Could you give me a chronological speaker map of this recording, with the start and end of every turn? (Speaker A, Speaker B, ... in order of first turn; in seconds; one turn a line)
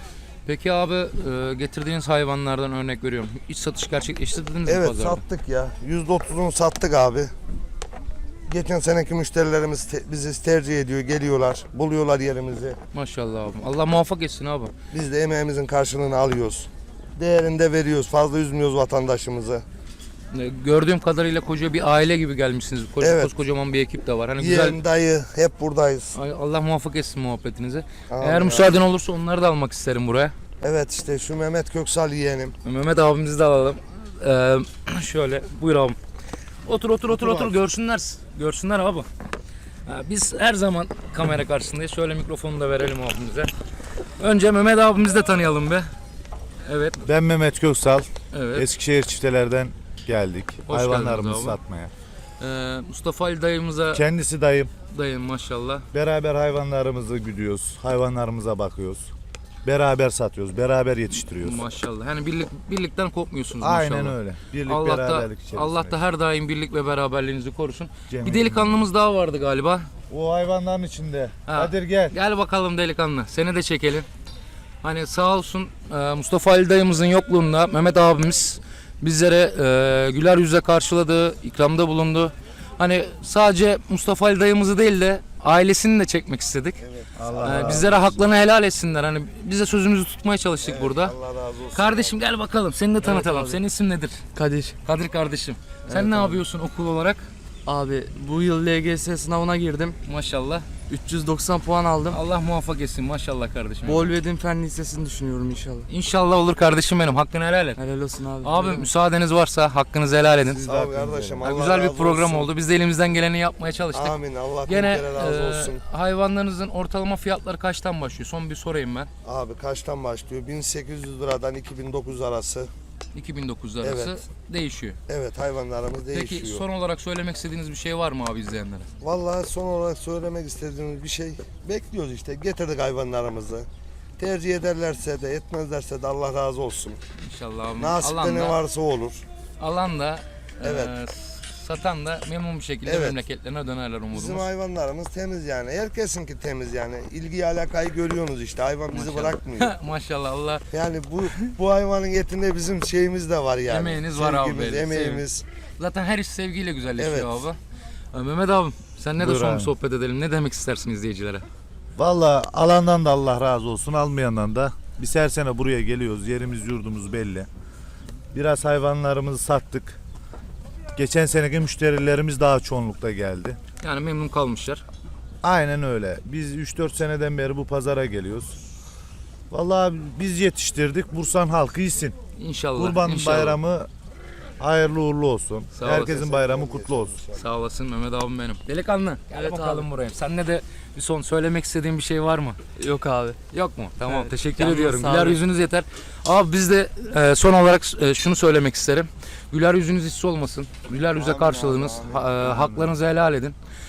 Speaker A: 0.4-5.2
Speaker B: 4.7-7.3
Speaker B: 8.5-12.8
Speaker A: 12.9-14.7
Speaker B: 14.9-19.6
Speaker A: 20.3-24.8
Speaker B: 23.0-23.3
Speaker B: 24.4-26.1
Speaker A: 26.1-30.3
Speaker B: 28.1-28.8
Speaker B: 30.6-32.5
Speaker A: 32.6-36.0
Speaker A: 36.6-39.1
Speaker B: 37.1-37.5
Speaker A: 39.9-43.5
Speaker A: 44.2-45.9
Speaker A: 46.6-47.0
Speaker C: 47.0-51.9
Speaker A: 48.3-48.7
Speaker A: 50.7-51.6
Speaker A: 52.4-54.0
Speaker C: 53.9-54.7
Speaker A: 54.9-55.9
Speaker C: 55.9-59.1
Speaker C: 59.6-61.6
Speaker A: 61.3-69.9
Speaker C: 63.6-66.0
Speaker C: 68.1-68.8
Speaker C: 70.1-72.1
Speaker A: 71.5-74.0
Speaker A: 74.8-86.8
Speaker B: 86.8-88.1
Speaker C: 87.2-88.0
Speaker A: 87.4-91.2
Speaker B: 90.6-92.2
Speaker A: 91.7-94.2
Speaker D: 93.0-93.6
Speaker D: 94.3-94.8
Speaker A: 94.8-97.2
Speaker D: 95.9-96.4
Speaker D: 97.7-100.0
Speaker A: 100.0-100.7
Speaker D: 100.9-102.2
Speaker A: 102.1-104.1
Speaker D: 103.8-105.9
Speaker A: 105.9-107.8
Speaker D: 107.8-108.9
Speaker A: 108.4-110.7
Speaker B: 110.5-112.5
Speaker C: 110.6-111.4
Speaker D: 110.7-111.1
Speaker A: 111.4-119.1
Speaker B: 113.9-115.8
Speaker B: 119.2-122.7
Speaker A: 123.1-125.0
Speaker B: 123.8-124.2
Speaker B: 125.1-126.6
Speaker A: 126.1-128.9
Speaker B: 129.0-133.7
Speaker B: 134.2-137.0
Speaker A: 137.2-138.6
Speaker B: 137.8-139.2
Speaker A: 139.6-144.5
Speaker B: 140.6-140.9
Speaker B: 142.8-143.2
Speaker B: 144.1-149.7
Speaker A: 148.9-150.6
Speaker B: 150.7-155.4
Speaker A: 151.2-151.5
Speaker A: 153.7-155.2
Speaker A: 155.8-157.6
Speaker B: 157.0-157.4
Speaker A: 158.1-161.4
Speaker C: 159.2-159.7
Speaker C: 161.9-167.5
Speaker C: 168.3-170.0
Speaker C: 170.9-173.6
Speaker A: 173.8-174.8
Speaker C: 175.4-178.6
Speaker C: 179.5-182.1
Speaker A: 182.4-183.6
Speaker C: 182.7-183.9
Speaker C: 184.6-187.2
Speaker A: 185.7-186.2
Speaker B: 185.8-187.4
Speaker A: 187.3-192.6
Speaker D: 189.3-189.9
Speaker D: 192.8-193.4
Speaker A: 193.5-203.6
Speaker D: 194.0-195.4
Speaker B: 201.1-202.5
Speaker C: 202.3-202.9